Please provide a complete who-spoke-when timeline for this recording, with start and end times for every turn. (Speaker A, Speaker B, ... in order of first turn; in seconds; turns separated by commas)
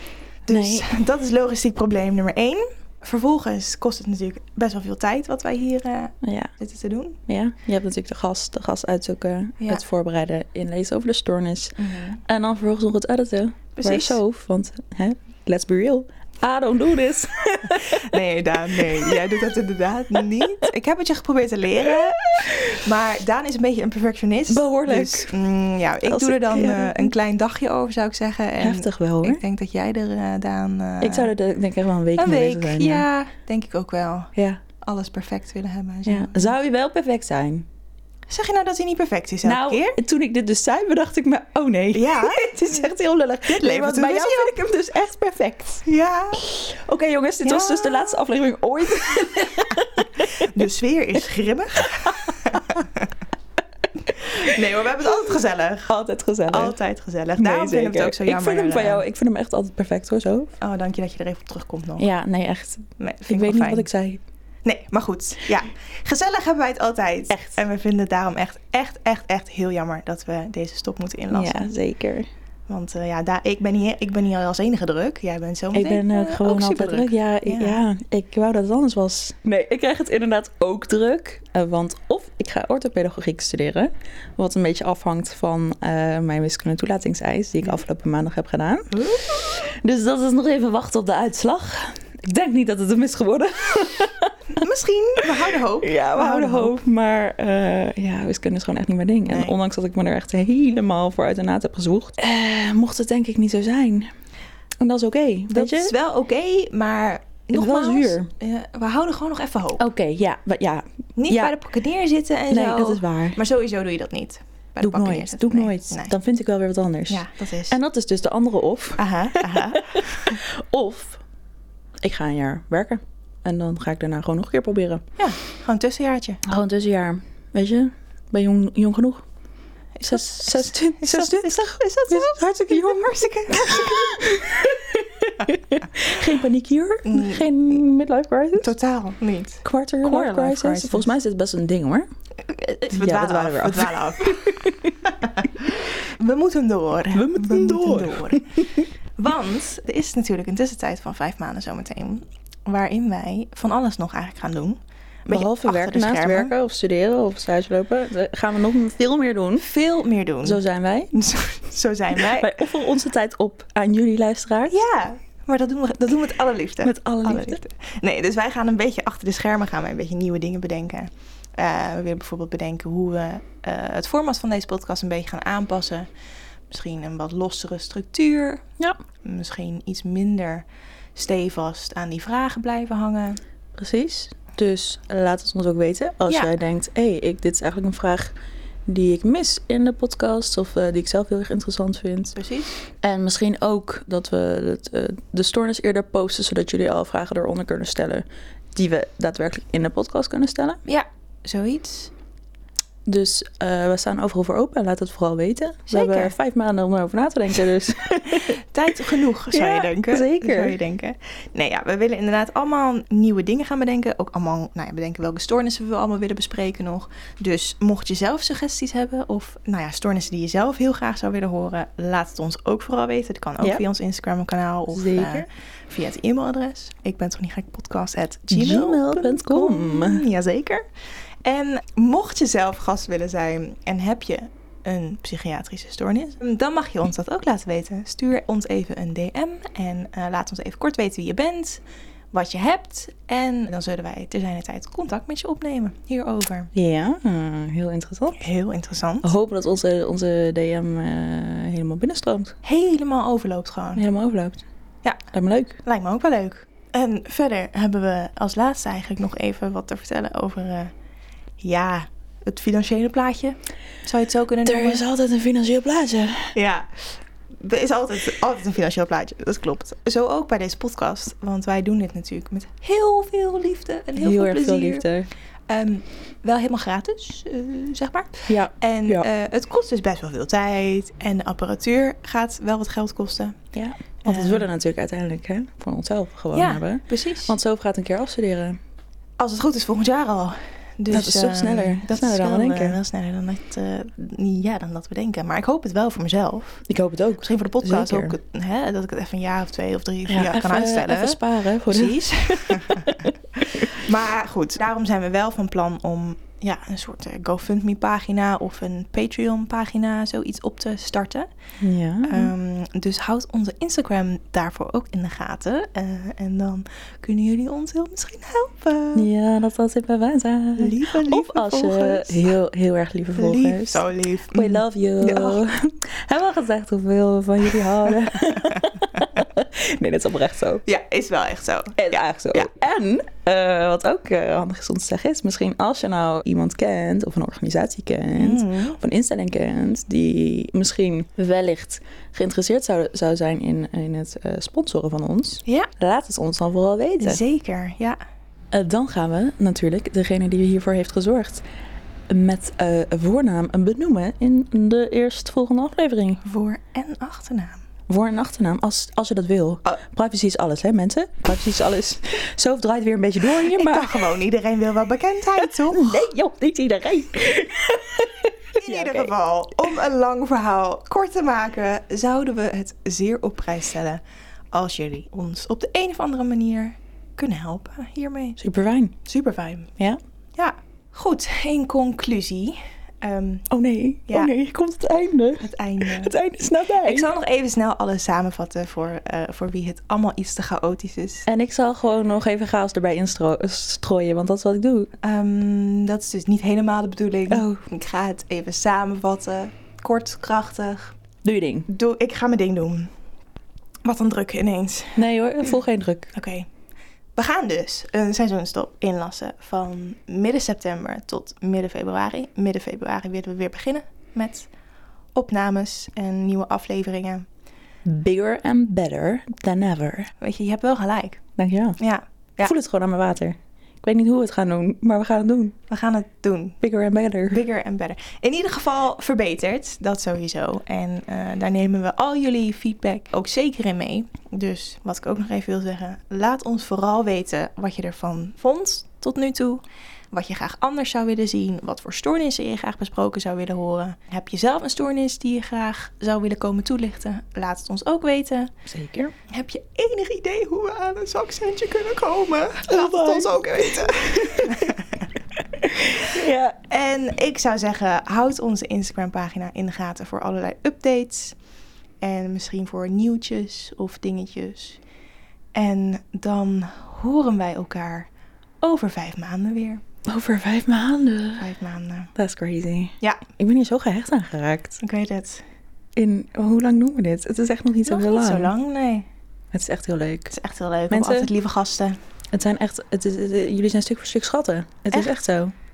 Speaker A: 0.5-7.2, Speaker B: 0.5-0.9, Speaker B: 6.2-6.5, Speaker B: 7.3-18.2, Speaker A: 11.8-12.2, Speaker A: 13.8-14.2, Speaker A: 17.7-31.3, Speaker B: 19.1-19.4, Speaker B: 21.8-22.8, Speaker B: 24.5-25.4, Speaker B: 26.0-27.1, Speaker B: 28.6-29.4, Speaker B: 31.0-33.1, Speaker A: 32.2-36.5, Speaker B: 34.4-34.6, Speaker B: 36.1-37.7, Speaker A: 38.3-40.0, Speaker B: 39.4-50.5, Speaker A: 41.9-42.9, Speaker A: 43.5-44.6, Speaker A: 45.9-46.4, Speaker A: 47.4-48.2, Speaker A: 50.3-53.1, Speaker A: 54.2-55.9, Speaker B: 54.2-54.6, Speaker B: 55.9-56.8, Speaker A: 56.5-59.0, Speaker B: 57.4-60.5, Speaker A: 60.6-62.1, Speaker B: 62.0-64.2, Speaker A: 63.0-63.9, Speaker A: 64.7-71.7, Speaker B: 67.3-67.6, Speaker B: 71.3-72.3, Speaker A: 72.7-77.8, Speaker B: 75.7-94.3, Speaker A: 88.9-89.5, Speaker A: 94.6-96.8, Speaker B: 95.8-104.1, Speaker A: 99.3-99.5, Speaker B: 104.8-106.0, Speaker A: 105.5-109.8, Speaker B: 107.5-108.3, Speaker B: 109.8-111.5, Speaker A: 111.2-116.1, Speaker B: 112.5-113.4, Speaker B: 114.8-121.2, Speaker A: 117.1-117.8, Speaker A: 119.0-120.4, Speaker B: 122.0-125.0, Speaker A: 125.2-126.4, Speaker B: 126.5-129.2, Speaker A: 130.0-134.3, Speaker B: 130.0-138.7, Speaker A: 137.1-137.8, Speaker A: 138.6-141.1, Speaker B: 139.6-142.1, Speaker A: 142.5-148.6, Speaker B: 142.9-144.8, Speaker B: 147.1-148.9, Speaker A: 149.2-156.5, Speaker B: 155.3-159.7, Speaker A: 159.6-162.5, Speaker B: 160.4-161.1, Speaker B: 162.2-164.8, Speaker A: 164.7-176.1, Speaker B: 166.8-167.6, Speaker A: 176.7-178.6, Speaker A: 179.2-183.4, Speaker B: 183.8-188.3, Speaker B: 188.9-192.4, Speaker A: 192.3-192.8, Speaker B: 193.0-200.8, Speaker A: 200.9-202.1, Speaker B: 203.1-208.6, Speaker A: 205.9-206.3, Speaker A: 208.5-230.8, Speaker B: 209.5-210.8, Speaker B: 224.9-225.4, Speaker B: 228.5-230.3, Speaker A: 231.4-246.7, Speaker B: 246.7-248.5, Speaker A: 248.3-249.3, Speaker B: 249.2-252.6, Speaker A: 252.6-254.0, Speaker B: 254.0-254.6, Speaker B: 255.3-255.8, Speaker A: 255.8-260.9, Speaker A: 261.6-265.0, Speaker B: 264.7-266.5, Speaker A: 266.5-275.1, Speaker B: 274.2-275.3, Speaker A: 275.7-283.6, Speaker B: 278.5-279.3, Speaker B: 283.7-288.8, Speaker A: 284.2-284.7, Speaker A: 286.5-287.6, Speaker A: 289.4-296.9, Speaker B: 291.1-293.0, Speaker B: 296.9-298.4, Speaker A: 297.4-303.1, Speaker B: 300.3-303.3, Speaker A: 303.8-311.5, Speaker B: 311.8-312.5, Speaker A: 312.2-319.3, Speaker B: 319.1-330.8, Speaker A: 320.8-322.4, Speaker A: 323.4-325.6, Speaker A: 330.9-332.7, Speaker B: 332.0-347.4, Speaker A: 338.4-339.0, Speaker A: 347.2-348.2, Speaker B: 348.7-351.6, Speaker B: 352.3-356.4, Speaker A: 356.4-357.8, Speaker B: 358.1-364.3, Speaker A: 363.6-366.3, Speaker B: 365.9-369.3, Speaker A: 368.8-374.2, Speaker A: 374.7-378.6, Speaker B: 378.6-379.1, Speaker A: 379.2-379.9, Speaker A: 380.6-383.7, Speaker B: 383.7-387.3, Speaker A: 385.6-386.4, Speaker A: 387.0-391.5, Speaker B: 391.5-395.1, Speaker A: 395.2-401.2, Speaker B: 397.5-397.8, Speaker B: 401.4-401.9, Speaker A: 401.9-403.1, Speaker A: 404.1-405.2, Speaker B: 405.2-406.3, Speaker A: 406.3-406.7, Speaker A: 407.4-414.7, Speaker A: 415.4-417.5, Speaker B: 418.1-420.3, Speaker A: 420.4-421.4, Speaker B: 421.6-422.0, Speaker A: 422.0-422.8, Speaker B: 422.6-425.7, Speaker A: 425.9-426.8, Speaker B: 426.8-427.6, Speaker A: 427.5-448.7, Speaker B: 448.9-449.3, Speaker A: 449.5-455.3, Speaker B: 452.9-454.9, Speaker B: 455.8-456.8, Speaker A: 456.9-461.6, Speaker A: 462.2-465.0, Speaker A: 465.7-468.3, Speaker A: 468.8-470.0, Speaker B: 470.3-471.7, Speaker A: 471.6-472.3, Speaker B: 472.4-475.0, Speaker A: 475.0-475.6, Speaker B: 476.2-478.7, Speaker A: 478.1-479.3, Speaker B: 479.7-480.6, Speaker A: 480.5-482.2, Speaker B: 481.1-481.5, Speaker B: 482.5-485.7